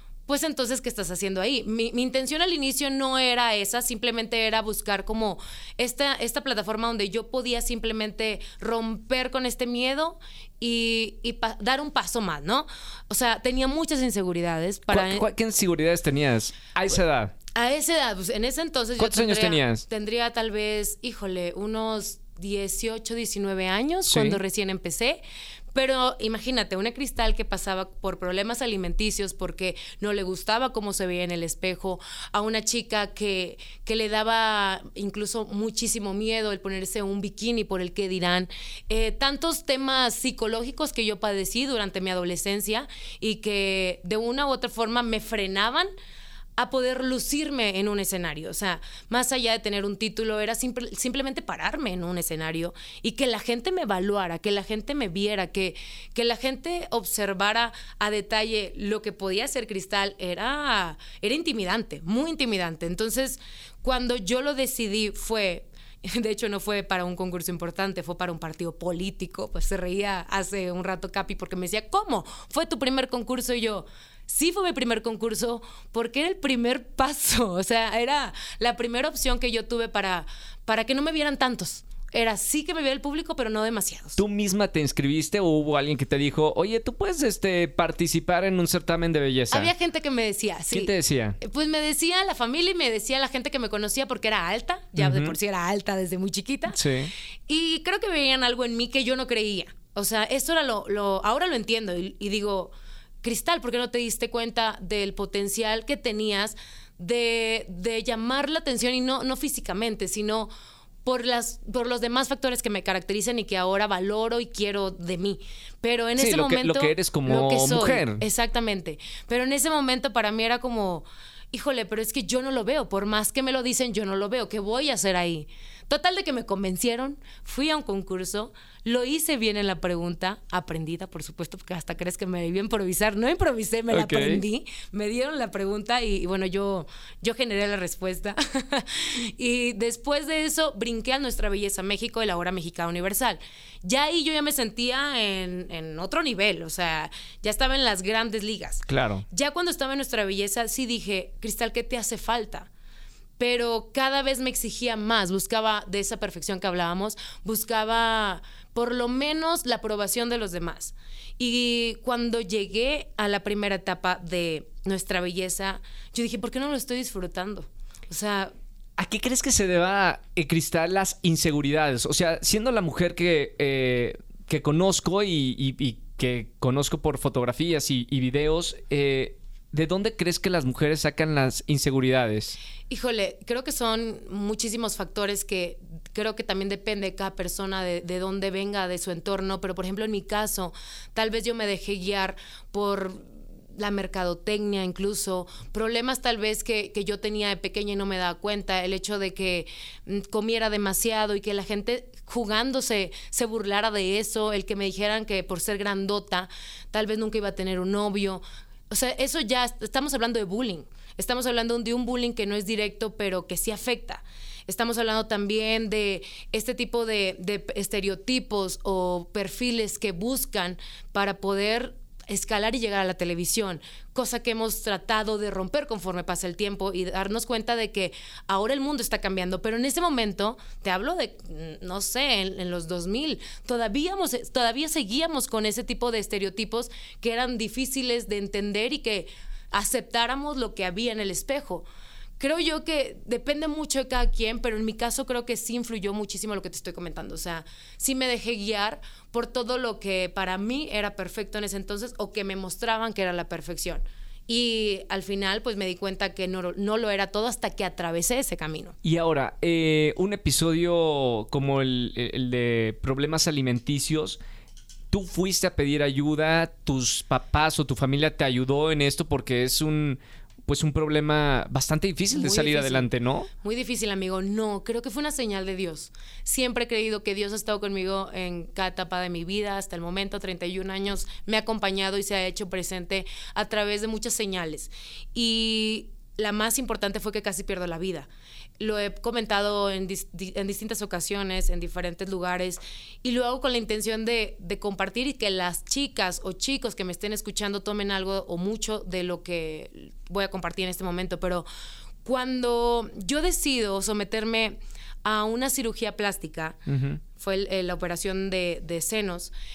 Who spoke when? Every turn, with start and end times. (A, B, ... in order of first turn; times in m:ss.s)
0:00.3-0:15.3 A
0:14.9-0:17.3 B
0:17.5-0:25.2 A
0:19.0-0:19.8 B
0:24.1-0:24.4 B
0:25.7-0:45.9 A
0:46.6-1:24.2 A
1:24.2-1:29.7 B
1:29.5-1:36.8 A
1:30.7-1:31.4 B
1:35.0-1:35.3 B
1:36.7-1:37.1 B
1:37.5-1:50.5 A
1:51.0-2:32.7 A
1:56.2-1:58.2 B
2:13.9-2:14.4 B
2:28.9-2:29.2 B
2:33.4-2:48.5 A
2:49.0-3:02.6 B
3:02.9-4:01.8 A
4:02.4-4:19.0 A
4:19.0-4:24.4 B
4:25.1-4:33.5 B
4:32.3-5:01.7 A
5:02.2-5:06.8 A
5:06.9-5:07.2 B
5:07.3-5:09.5 A